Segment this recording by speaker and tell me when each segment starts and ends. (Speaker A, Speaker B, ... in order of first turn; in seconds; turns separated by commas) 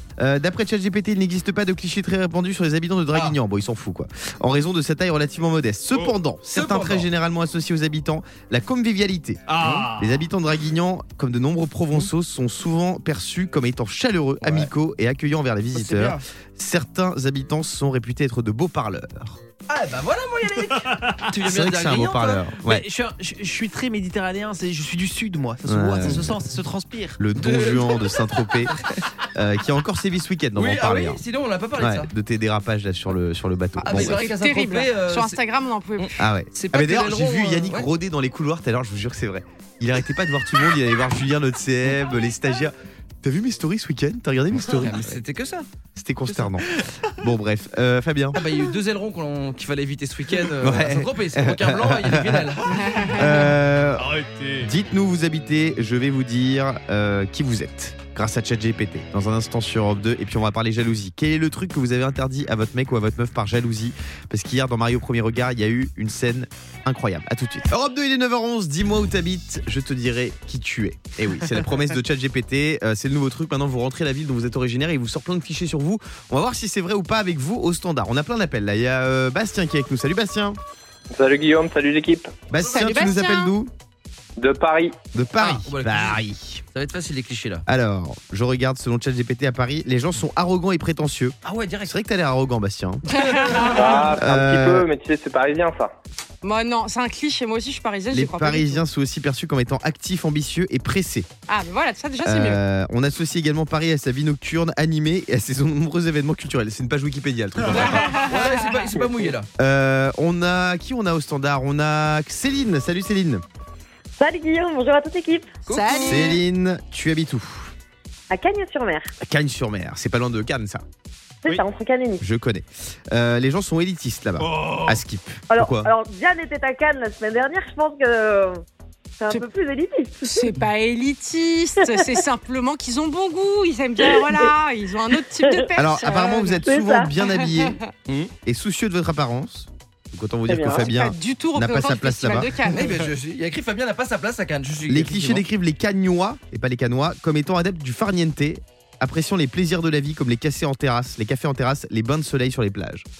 Speaker A: 0.2-19.4, Speaker B: 6.0-7.0, Speaker B: 9.5-10.2, Speaker C: 14.4-14.7, Speaker C: 15.8-16.2, Speaker C: 19.7-22.5, Speaker B: 20.8-21.2, Speaker A: 21.4-22.9, Speaker B: 22.6-27.2, Speaker A: 25.7-26.3, Speaker A: 27.2-28.8, Speaker C: 27.4-29.0, Speaker A: 29.4-31.2, Speaker C: 30.6-32.1, Speaker A: 31.8-34.2, Speaker D: 33.8-36.1, Speaker C: 33.8-35.4, Speaker C: 36.0-37.9, Speaker A: 36.2-45.2, Speaker C: 44.7-45.7, Speaker A: 46.0-48.4, Speaker C: 48.4-52.8, Speaker A: 50.6-54.1, Speaker D: 52.9-53.3, Speaker B: 54.0-54.7, Speaker A: 54.6-80.6, Speaker E: 81.1-82.3, Speaker A: 82.5-83.7, Speaker D: 82.7-83.5, Speaker E: 84.4-85.0, Speaker A: 85.1-86.6, Speaker C: 85.4-86.2, Speaker C: 86.7-87.6, Speaker A: 87.7-93.0, Speaker C: 91.4-92.0, Speaker D: 93.1-93.9, Speaker C: 93.3-93.8, Speaker E: 93.7-95.9, Speaker A: 94.1-94.9, Speaker D: 96.4-98.8, Speaker A: 98.1-101.3, Speaker D: 101.5-102.6, Speaker A: 102.2-108.1, Speaker C: 107.7-109.5, Speaker A: 109.6-113.4, Speaker F: 114.2-115.5, Speaker C: 115.7-116.3, Speaker D: 115.7-116.4, Speaker A: 116.0-117.7, Speaker F: 118.3-119.1, Speaker A: 119.2-120.8, Speaker F: 121.4-122.2, Speaker A: 122.2-125.9, Speaker B: 124.4-125.0, Speaker F: 125.5-128.6, Speaker F: 129.2-130.2, Speaker D: 130.2-136.6, Speaker A: 135.8-137.8, Speaker F: 136.6-137.1, Speaker D: 137.4-137.8, Speaker A: 138.4-142.6, Speaker F: 140.5-140.9, Speaker D: 140.8-143.0, Speaker C: 142.7-145.4, Speaker A: 144.9-153.1